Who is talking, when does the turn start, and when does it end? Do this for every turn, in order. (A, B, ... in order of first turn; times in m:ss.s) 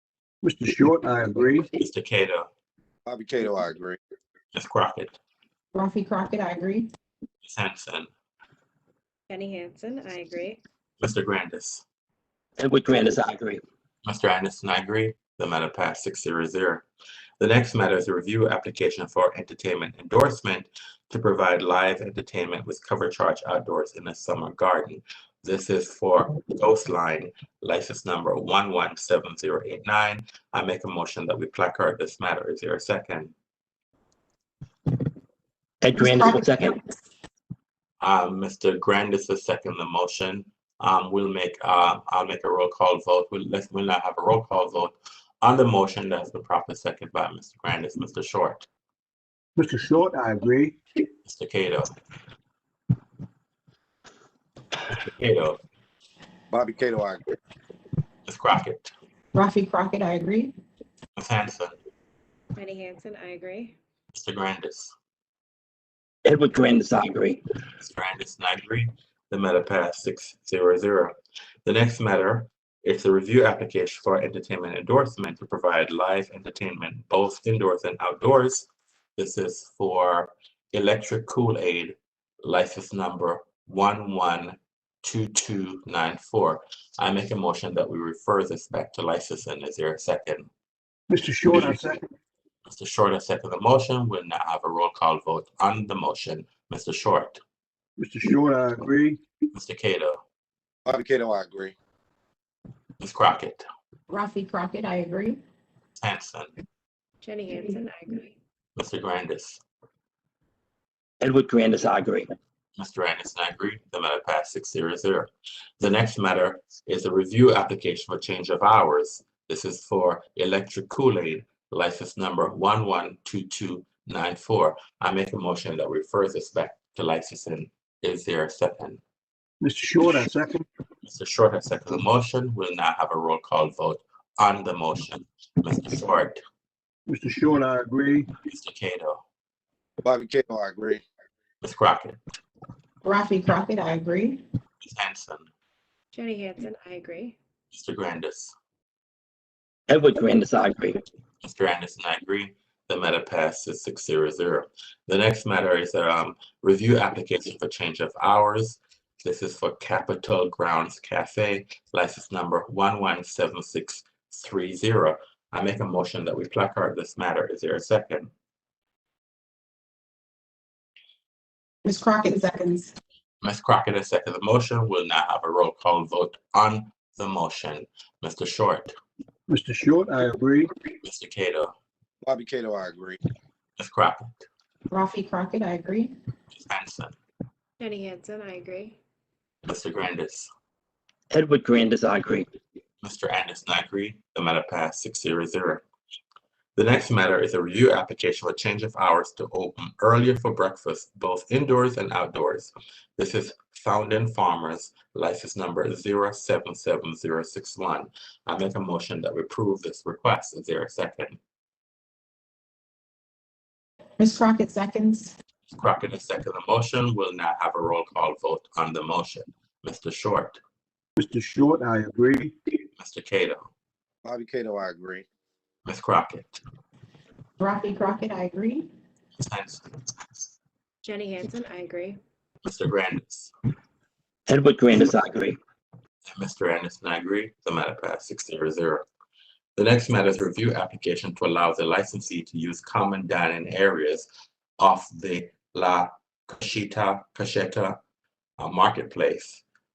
0:00.4-0:01.7 A
0:01.8-0:02.5 B
0:03.1-0:04.0 C
0:04.5-0:05.2 B
0:05.7-0:06.9 D
0:07.4-0:08.1 B
0:09.3-0:10.6 E
0:11.0-0:11.8 B
0:12.6-0:13.6 F
0:14.0-0:16.8 B
0:17.4-0:33.3 B
0:35.8-0:36.7 F
0:36.0-0:36.3 D
0:38.0-0:48.7 B
0:49.6-0:50.8 A
0:51.2-0:51.9 B
0:54.9-0:55.6 B
0:56.5-0:57.2 C
0:58.3-0:58.9 B
0:59.3-1:00.5 D
1:01.2-1:01.8 B
1:02.6-1:03.8 E
1:04.1-1:04.9 B
1:06.3-1:07.4 F
1:07.8-1:30.5 B
1:31.1-1:32.1 A
1:32.7-1:37.4 B
1:38.0-1:39.2 A
1:39.5-1:40.2 B
1:40.9-1:41.8 C
1:43.0-1:43.7 B
1:44.1-1:45.4 D
1:46.0-1:46.5 B
1:47.2-1:48.4 E
1:48.8-1:49.6 B
1:51.2-1:52.3 F
1:52.8-2:09.0 B
2:09.6-2:10.6 A
2:11.0-2:16.4 B
2:17.1-2:18.3 A
2:18.4-2:19.2 B
2:20.0-2:21.0 C
2:21.6-2:22.2 B
2:23.0-2:24.4 D
2:24.8-2:25.5 B
2:26.1-2:27.4 E
2:27.7-2:28.6 B
2:29.9-2:31.0 F
2:31.4-2:48.3 B
2:51.8-2:53.0 D
2:53.4-2:58.9 B
2:59.5-3:00.7 A
3:01.0-3:01.7 B
3:02.2-3:03.2 C
3:03.8-3:04.5 B
3:04.9-3:06.1 D
3:06.5-3:07.2 B
3:07.8-3:09.0 E
3:09.6-3:10.5 B
3:11.3-3:12.5 F
3:13.0-3:15.8 B
3:16.8-3:31.4 B
3:34.2-3:35.3 D
3:35.7-3:40.6 B
3:41.2-3:42.5 A
3:43.0-3:43.7 B
3:44.2-3:45.3 C
3:45.8-3:46.6 B
3:47.6-3:48.9 D
3:49.4-3:49.9 B
3:51.0-3:52.2 E
3:52.6-3:53.5 B
3:54.5-3:55.6 F
3:56.3-3:59.1 B
3:59.8-4:04.3 B
4:04.8-4:08.0 B
4:08.6-4:09.6 B